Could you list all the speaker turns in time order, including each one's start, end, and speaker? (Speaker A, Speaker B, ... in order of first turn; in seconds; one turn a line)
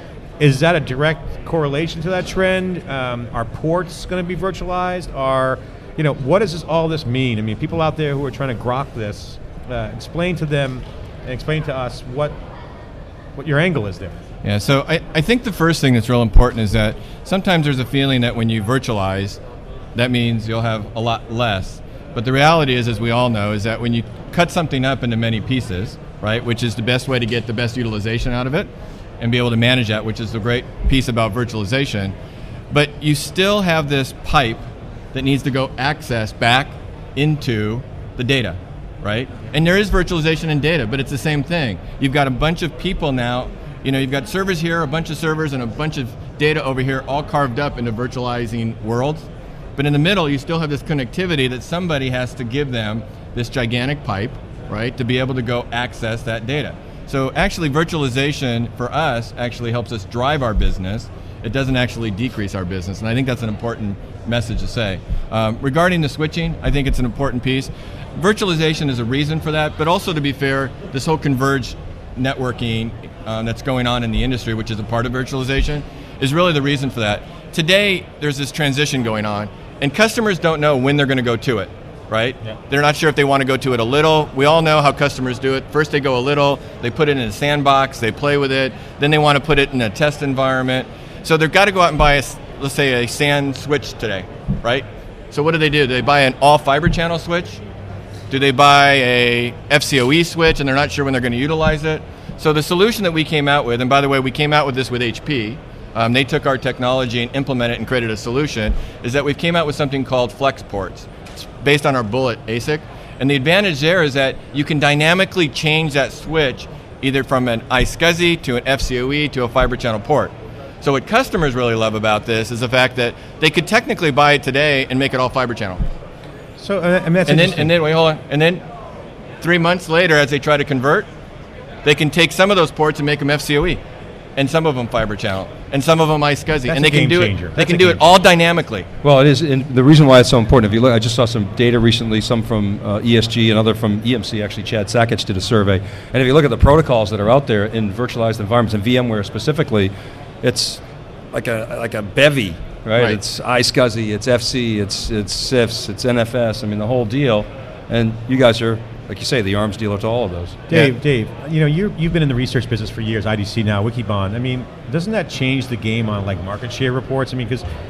Speaker A: 0.4-12.4
Speaker A: 13.4-14.2
Speaker B: 14.4-19.4
Speaker B: 19.9-32.1
Speaker B: 32.7-97.6
Speaker B: 98.3-125.8
Speaker A: 126.6-127.7
Speaker B: 127.3-128.7
Speaker B: 129.4-131.1
Speaker B: 131.8-133.8
Speaker B: 134.4-138.9
Speaker A: 136.7-138.1
Speaker C: 139.0-160.8
Speaker A: 160.7-167.7